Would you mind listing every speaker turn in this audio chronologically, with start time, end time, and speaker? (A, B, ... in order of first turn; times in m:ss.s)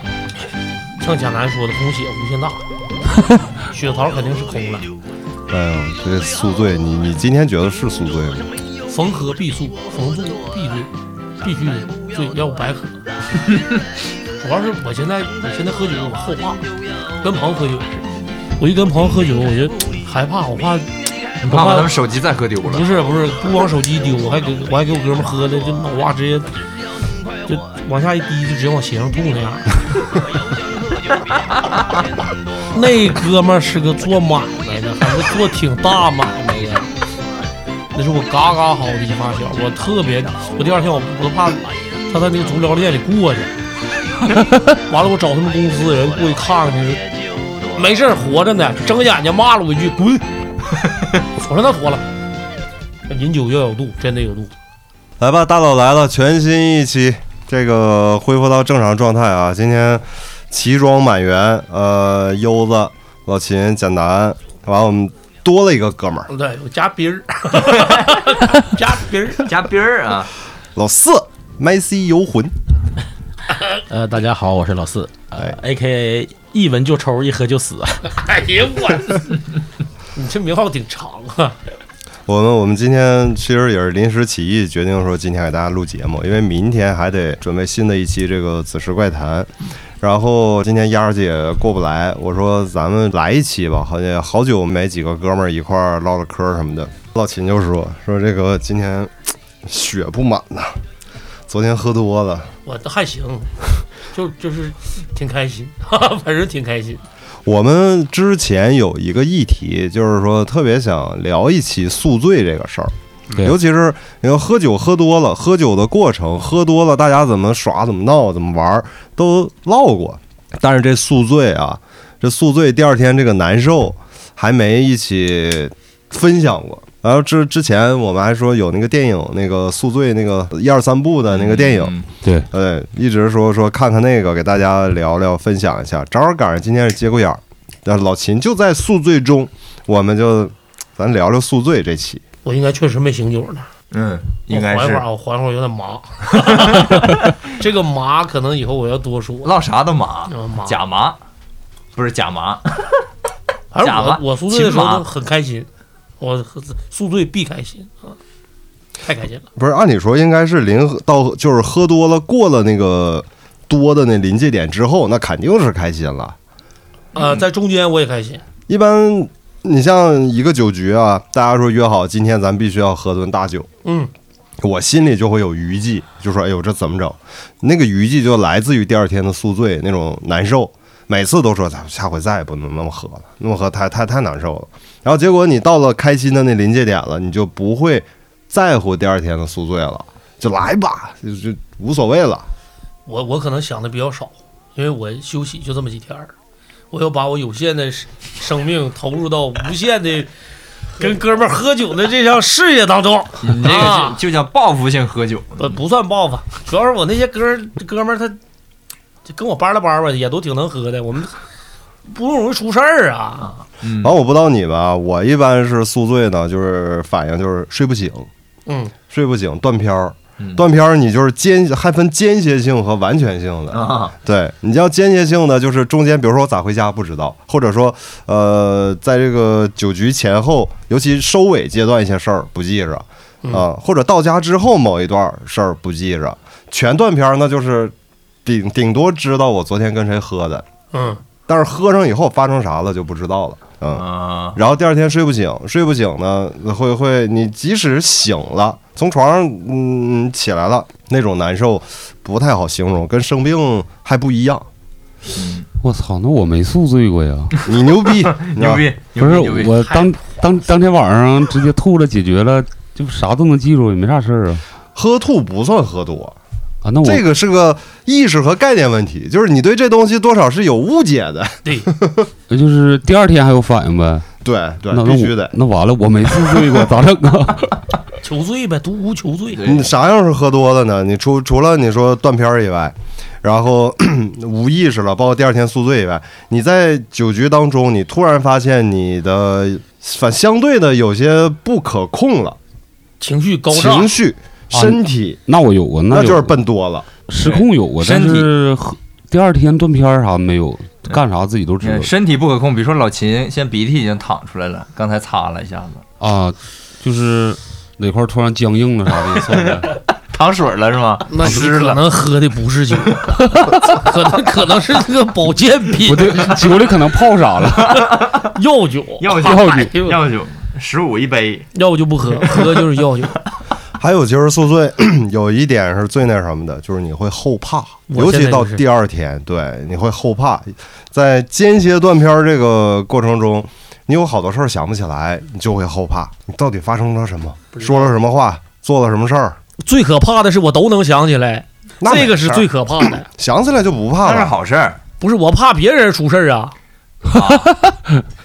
0:01.0-0:02.6 A
0:03.7-0:04.9 A
0:05.5-0:08.5 B
0:08.9-0:13.0 A
0:14.4-0:16.7 A
0:17.2-0:18.0 A
0:18.6-0:20.9 A
0:21.4-0:22.0 A
0:21.5-0:22.9 C
0:22.7-0:26.5 A
0:27.5-0:29.8 A
0:32.7-0:36.9 A
0:37.9-0:43.5 A
0:44.7-0:47.0 A
0:47.7-0:50.3 A
0:51.4-0:52.0 A
0:53.1-0:54.5 A
0:55.2-1:06.3 B
1:06.3-1:09.4 A
1:09.4-1:10.3 C
1:10.8-1:12.5 B
1:13.9-1:18.0 D
1:18.1-1:19.4 A
1:20.2-1:21.6 A
1:22.3-1:29.5 B
1:30.0-1:39.1 B
1:39.6-1:40.8 B
1:41.5-1:42.5 B
1:42.7-1:43.5 A
1:44.1-1:47.0 A
1:47.4-2:22.2 B
2:11.3-2:12.0 C
2:12.2-2:12.5 E
2:22.4-2:23.7 A
2:23.9-2:25.0 C
2:24.5-2:29.5 A
2:26.5-2:27.1 C
2:29.4-2:31.2 C
2:30.3-2:30.8 A
2:32.0-2:32.6 C
2:33.7-2:35.7 A
2:33.8-2:35.1 C
2:36.2-2:38.2 A
2:39.0-2:39.5 A
2:39.6-2:46.4 B
2:47.2-2:48.4 A
2:47.2-2:47.4 C
2:48.7-2:53.7 B
2:53.8-2:54.1 A
2:54.6-3:12.5 B
3:13.1-3:16.3 A
3:16.9-3:20.3 A
3:21.0-3:24.2 A
3:23.4-3:25.8 C
3:25.6-3:28.4 A
3:29.3-3:31.4 A
3:32.1-3:33.6 A
3:33.8-3:34.1 C
3:34.0-3:38.3 B
3:38.7-3:38.9 A
3:39.1-3:57.9 B
3:40.4-3:40.6 C
3:43.7-3:44.1 C
3:58.4-4:00.6 B
4:00.9-4:01.2 A
4:01.5-4:14.7 B
4:03.9-4:04.6 C
4:15.3-4:15.6 C
4:15.8-4:17.6 E
4:17.7-4:18.9 B
4:18.2-4:20.1 C
4:19.2-4:24.6 E
4:25.0-4:26.4 B
4:26.8-4:27.2 E
4:27.0-4:32.3 B
4:32.5-4:34.3 E
4:34.4-4:35.5 B
4:34.9-4:37.8 E
4:38.2-4:39.7 A
4:39.6-4:39.8 C
4:39.6-4:52.6 B
4:53.2-4:54.1 A
4:53.7-4:55.4 B
4:54.7-4:56.6 E
4:56.1-4:57.1 B
4:57.3-5:02.1 E
4:57.4-4:58.5 C
5:01.8-5:06.0 C
5:06.2-5:09.9 E
5:09.3-5:12.0 C
5:11.3-5:16.4 A
5:16.0-5:18.0 E
5:17.9-5:18.3 C
5:18.5-5:20.2 A
5:19.2-5:21.7 C
5:19.4-5:19.9 E
5:21.7-5:23.4 A
5:24.0-5:39.6 B
5:28.1-5:28.8 A
5:37.7-5:38.1 A
5:39.8-5:43.3 A
5:42.0-5:44.6 B
5:44.2-5:45.0 C
5:45.2-5:46.8 A
5:47.3-5:47.7 C